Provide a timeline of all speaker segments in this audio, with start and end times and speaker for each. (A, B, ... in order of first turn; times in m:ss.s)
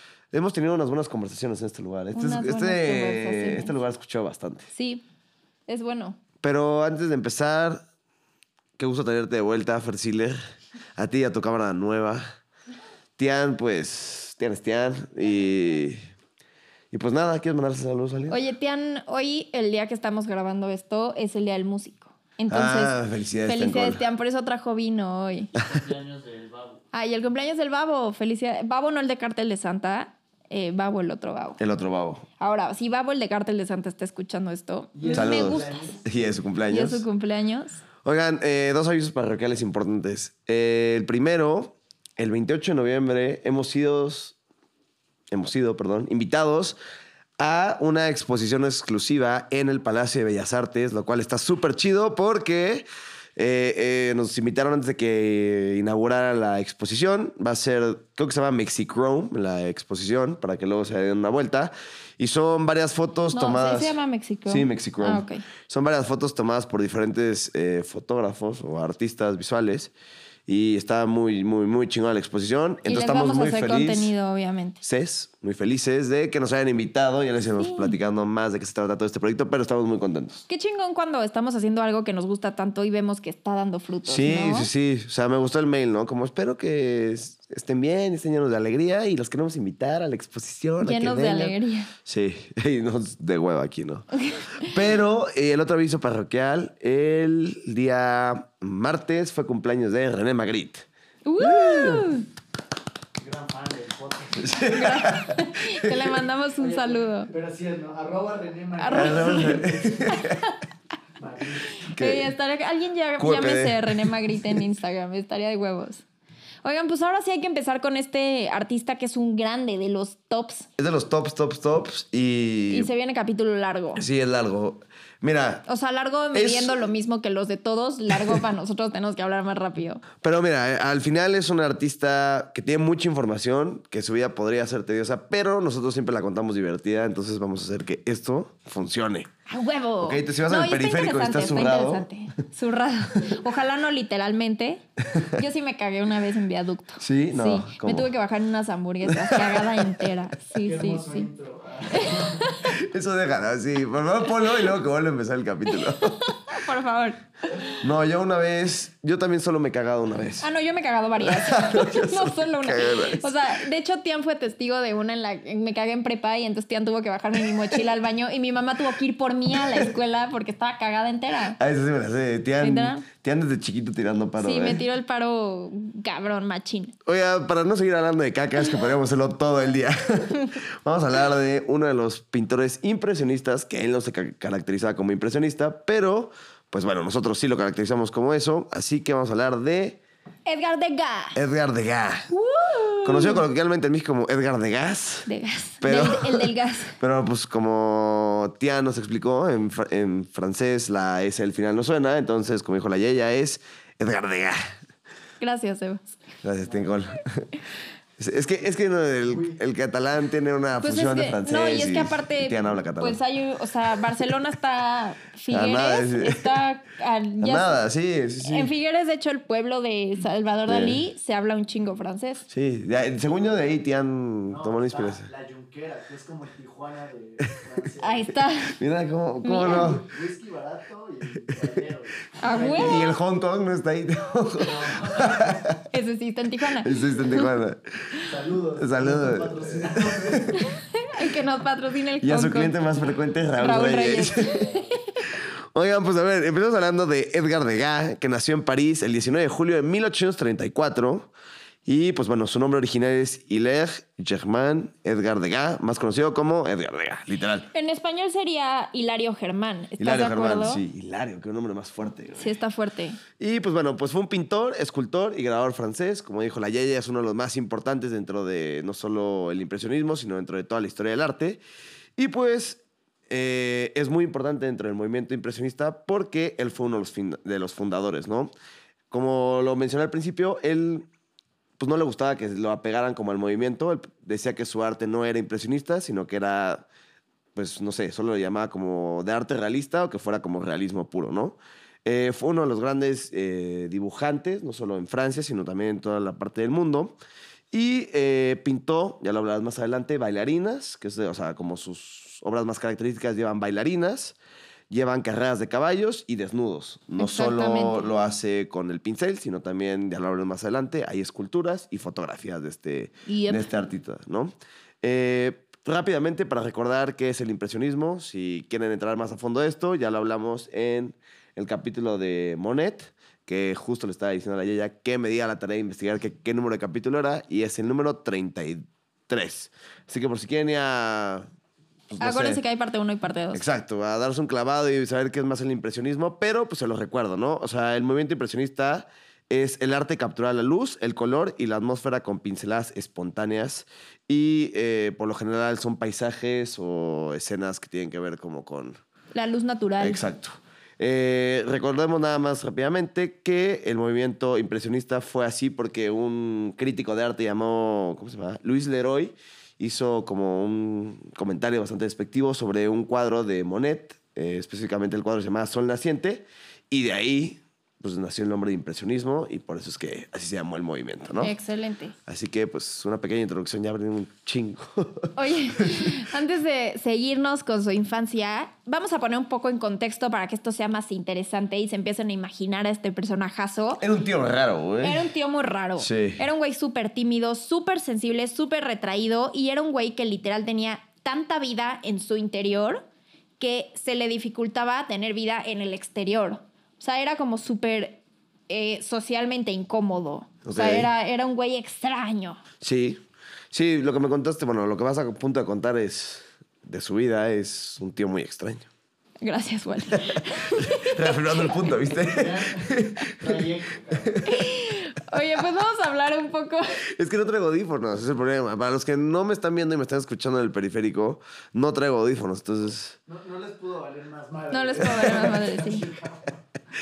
0:00.3-0:04.7 A
0:02.1-0:03.7 B
0:04.7-0:05.0 B
0:05.7-0:06.2 B
0:06.4-0:07.8 A
0:08.8-0:10.4 A
0:11.0-0:12.2 A
0:13.2-0:16.0 A
0:16.9-0:18.4 A
0:18.3-0:25.5 B
0:22.5-0:24.0 A
0:25.6-0:26.8 C
0:26.9-0:31.6 B
0:31.6-0:32.2 A
0:32.4-0:36.0 B
0:35.0-0:36.4 C
0:35.1-0:37.0 A
0:36.7-0:37.8 B
0:38.0-0:44.4 A
0:45.3-0:46.8 A
0:47.4-1:09.9 A
1:03.3-1:05.4 B
1:10.5-1:14.1 A
1:12.8-1:14.8 B
1:14.8-1:20.4 A
1:17.6-1:18.0 B
1:20.5-1:24.7 B
1:24.0-1:40.8 A
1:30.8-1:31.9 B
1:34.3-1:34.7 B
1:41.2-1:42.2 B
1:41.4-1:42.1 A
1:43.2-1:44.6 C
1:44.4-1:46.2 A
1:44.5-1:47.3 B
1:46.6-1:50.2 C
1:48.8-1:50.6 B
1:48.9-1:50.4 A
1:51.2-1:51.8 C
1:51.8-1:56.0 B
1:51.9-1:52.3 A
1:53.2-1:54.6 A
1:56.6-2:00.7 B
2:00.8-2:02.9 A
2:02.7-2:04.0 B
2:04.0-2:05.6 A
2:05.7-2:10.0 B
2:06.3-2:06.8 A
2:08.1-2:08.4 A
2:10.2-2:19.3 A
2:19.5-2:31.3 B
2:20.0-2:22.1 A
2:27.0-2:28.1 A
2:29.0-2:30.1 A
2:30.6-2:32.5 C
2:31.9-2:32.7 B
2:32.7-2:36.2 A
2:35.7-2:37.8 B
2:37.8-2:40.5 A
2:40.4-2:51.6 B
2:41.2-2:43.4 A
2:47.4-2:47.8 A
2:49.5-2:49.9 A
2:51.6-2:54.8 A
2:52.6-2:53.0 B
2:54.4-2:56.9 B
2:57.0-3:10.0 A
3:10.4-3:11.4 B
3:11.4-3:12.3 A
3:12.3-3:13.4 B
3:13.0-3:15.3 A
3:15.2-3:17.0 B
3:15.8-3:24.6 A
3:25.4-3:26.2 B
3:26.4-3:27.5 A
3:26.6-3:27.0 C
3:28.2-3:33.2 A
3:28.3-3:29.6 C
3:30.8-3:37.8 B
3:35.5-3:36.5 A
3:37.4-3:38.7 A
3:38.4-3:42.4 B
3:40.7-3:41.0 A
3:42.5-3:45.3 A
3:43.0-3:43.8 C
3:44.5-3:48.3 C
3:48.0-3:48.8 B
3:48.7-3:50.0 A
3:49.4-3:49.9 B
3:49.5-3:53.2 C
3:52.4-3:53.1 B
3:52.8-3:55.8 A
3:54.6-3:55.7 C
3:55.9-3:57.5 B
3:56.8-3:57.8 A
3:58.2-4:00.6 C
3:58.8-4:00.5 A
4:00.5-4:02.8 B
4:02.2-4:04.6 A
4:03.6-4:04.9 B
4:04.5-4:04.9 C
4:05.4-4:11.3 A
4:11.8-4:17.7 A
4:17.7-4:20.8 B
4:20.0-4:22.6 A
4:22.4-4:23.2 B
4:23.4-4:31.6 A
4:32.2-4:38.5 A
4:39.1-4:41.1 A
4:41.8-4:46.8 A
4:47.5-4:57.2 A
4:57.7-5:04.4 A
5:04.9-5:31.5 A
5:07.2-5:08.1 B
5:13.3-5:13.7 B
5:32.1-5:32.6 A
5:32.2-5:33.6 B
5:33.5-5:49.0 A
5:49.3-5:50.2 B
5:50.0-6:11.5 A
6:11.4-6:12.2 B
6:12.3-6:16.1 A
6:15.4-6:24.0 B
6:24.0-6:25.3 A
6:25.0-6:33.0 B
6:26.0-6:26.4 A
6:33.6-6:42.6 B
6:40.6-6:41.1 A
6:42.8-6:43.2 A
6:43.7-6:48.9 A
6:49.4-6:51.8 B
6:50.2-6:54.4 A
6:52.1-6:54.4 C
6:54.4-6:57.0 B
6:57.1-7:03.2 A
7:03.3-7:06.5 C
7:04.7-7:06.0 B
7:05.1-7:05.4 A